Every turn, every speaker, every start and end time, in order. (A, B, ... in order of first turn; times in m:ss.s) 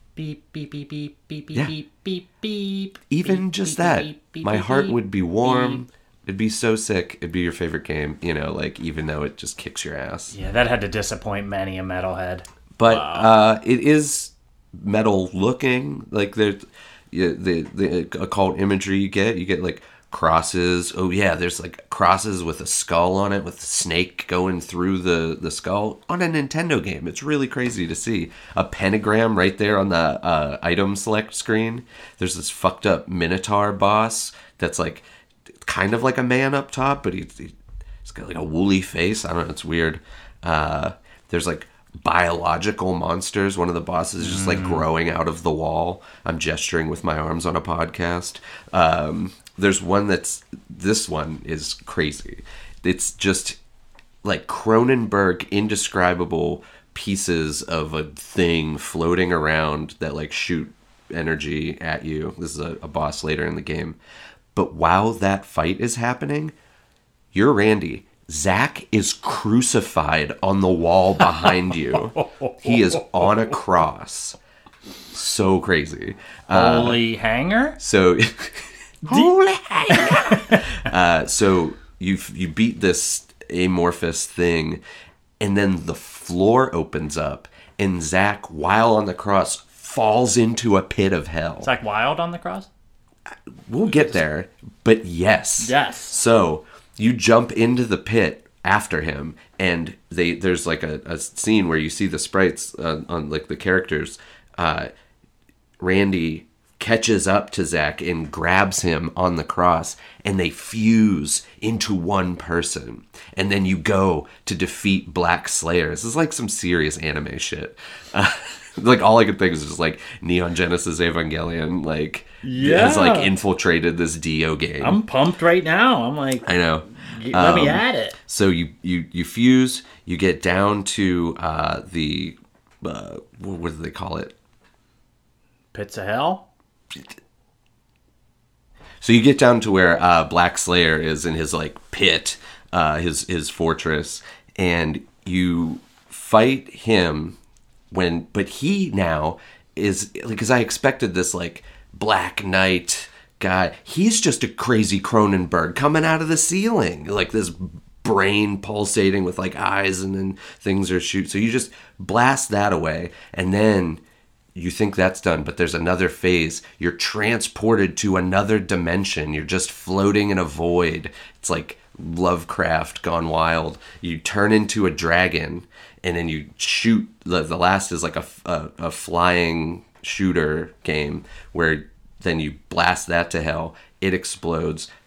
0:00.2-0:05.8 A
0:03.1-0:10.3 B
0:10.3-0:13.3 A
0:12.8-0:35.0 B
0:35.6-0:53.6 B
0:44.2-0:44.8 A
0:54.2-1:04.0 B
1:04.6-1:06.5 B
1:07.3-1:14.4 B
1:11.4-1:13.2 A
1:15.1-1:17.0 B
1:16.5-1:17.8 A
1:17.8-1:24.8 B
1:19.9-1:20.7 A
1:25.4-1:31.7 B
1:31.6-1:32.7 A
1:33.3-1:44.9 B
1:35.6-1:36.2 A
1:45.8-2:05.0 B
2:02.4-2:03.3 A
2:04.8-2:08.2 A
2:06.4-2:14.4 B
2:15.7-2:16.5 A
2:19.0-2:27.4 B
2:27.9-2:44.0 B
2:44.6-3:04.9 B